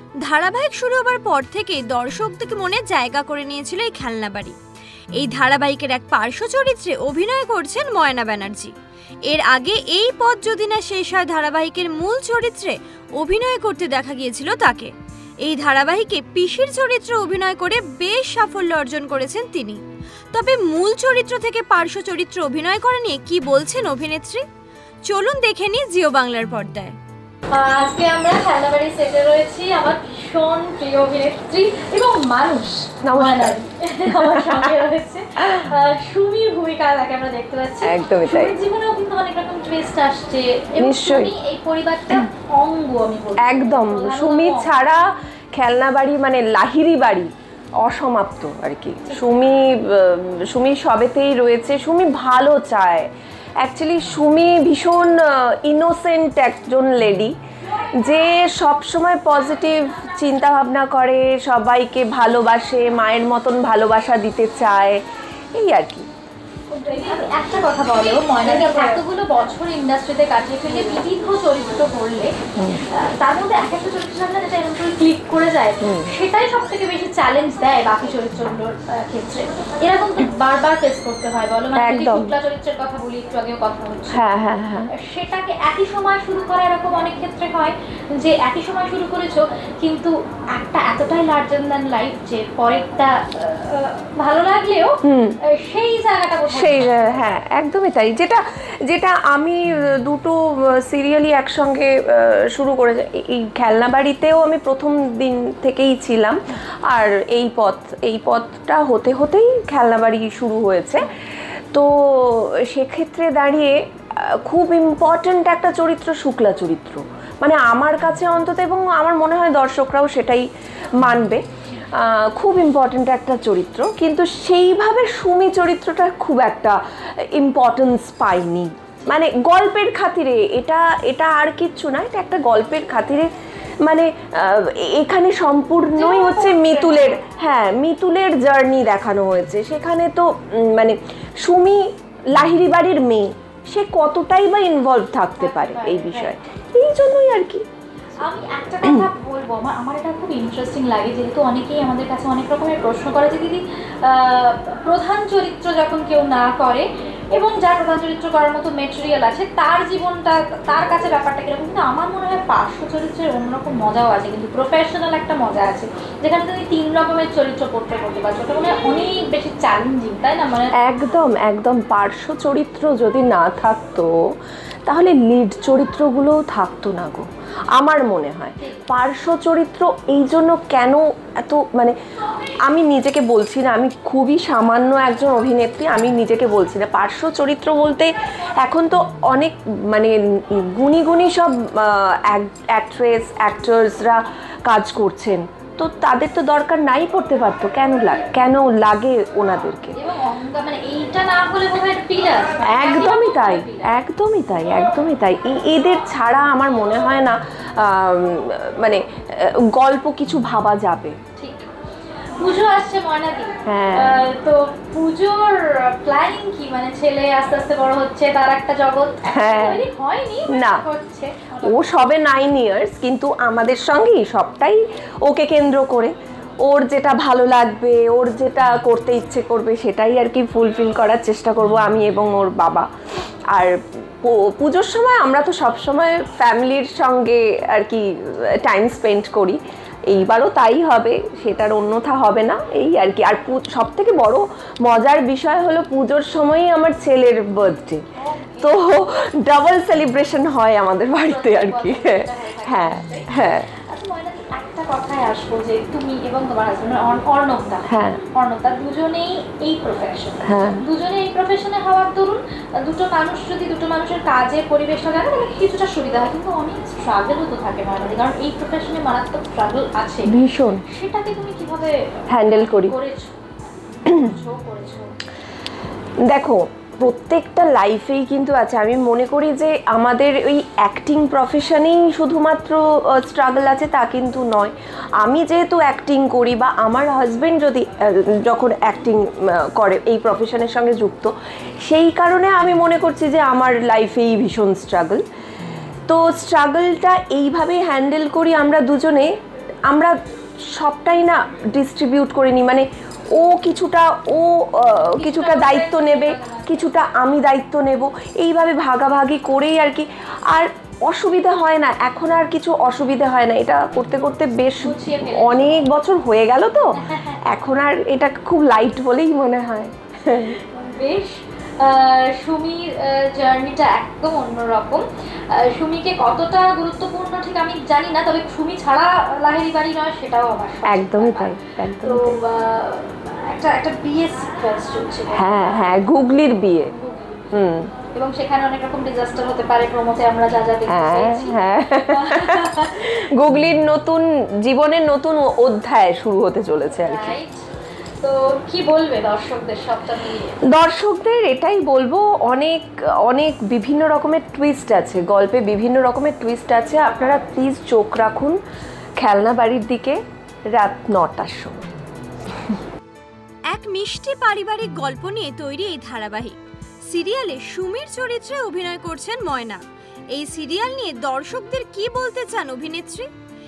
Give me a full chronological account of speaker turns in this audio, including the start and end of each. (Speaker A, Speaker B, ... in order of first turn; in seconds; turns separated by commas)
Speaker A: 0.2-4.6, Speaker A: 5.2-8.7, Speaker A: 9.3-14.9, Speaker A: 15.4-19.8, Speaker A: 20.3-24.4, Speaker A: 25.1-27.0, Speaker B: 27.5-44.8, Speaker C: 33.0-34.9, Speaker C: 37.8-38.6, Speaker C: 40.8-41.4, Speaker C: 43.4-47.3, Speaker C: 47.8-57.3, Speaker C: 58.0-65.0, Speaker C: 65.5-66.1, Speaker B: 66.7-84.3, Speaker C: 68.5-68.9, Speaker C: 75.8-76.1, Speaker C: 81.8-82.3, Speaker C: 84.1-84.9, Speaker B: 84.9-95.0, Speaker C: 95.0-95.4, Speaker B: 95.5-97.2, Speaker C: 96.5-111.1, Speaker C: 111.7-121.4, Speaker C: 122.0-133.3, Speaker C: 133.8-147.6, Speaker B: 136.0-137.3, Speaker B: 145.4-146.4, Speaker B: 148.2-170.8, Speaker C: 148.8-149.1, Speaker C: 170.8-174.1, Speaker C: 174.9-182.0, Speaker C: 182.7-199.9, Speaker B: 200.0-203.9, Speaker C: 202.6-211.2, Speaker B: 211.4-211.7, Speaker B: 212.4-221.9, Speaker C: 213.7-214.2, Speaker C: 219.3-219.8, Speaker C: 220.5-220.8, Speaker C: 221.6-226.1, Speaker C: 226.7-232.9, Speaker C: 233.5-248.0, Speaker B: 248.2-248.8, Speaker C: 248.6-253.7, Speaker B: 251.2-273.4, Speaker C: 257.9-258.2, Speaker C: 260.4-260.9, Speaker C: 270.3-270.8, Speaker C: 272.3-272.9, Speaker B: 274.0-275.1, Speaker C: 276.3-291.3, Speaker C: 291.9-295.2, Speaker C: 296.1-299.3, Speaker C: 299.9-300.1, Speaker C: 300.7-320.6, Speaker B: 305.2-306.9, Speaker B: 314.8-315.9, Speaker B: 317.0-317.4, Speaker B: 320.6-335.6, Speaker C: 330.9-332.4, Speaker C: 335.3-336.9, Speaker B: 336.9-337.5, Speaker C: 337.5-337.9, Speaker B: 338.1-343.1, Speaker C: 340.9-347.4, Speaker B: 346.9-347.6, Speaker B: 348.2-350.6, Speaker C: 350.7-358.6, Speaker C: 359.2-360.2, Speaker C: 360.7-361.9, Speaker A: 363.7-366.6, Speaker A: 367.1-373.3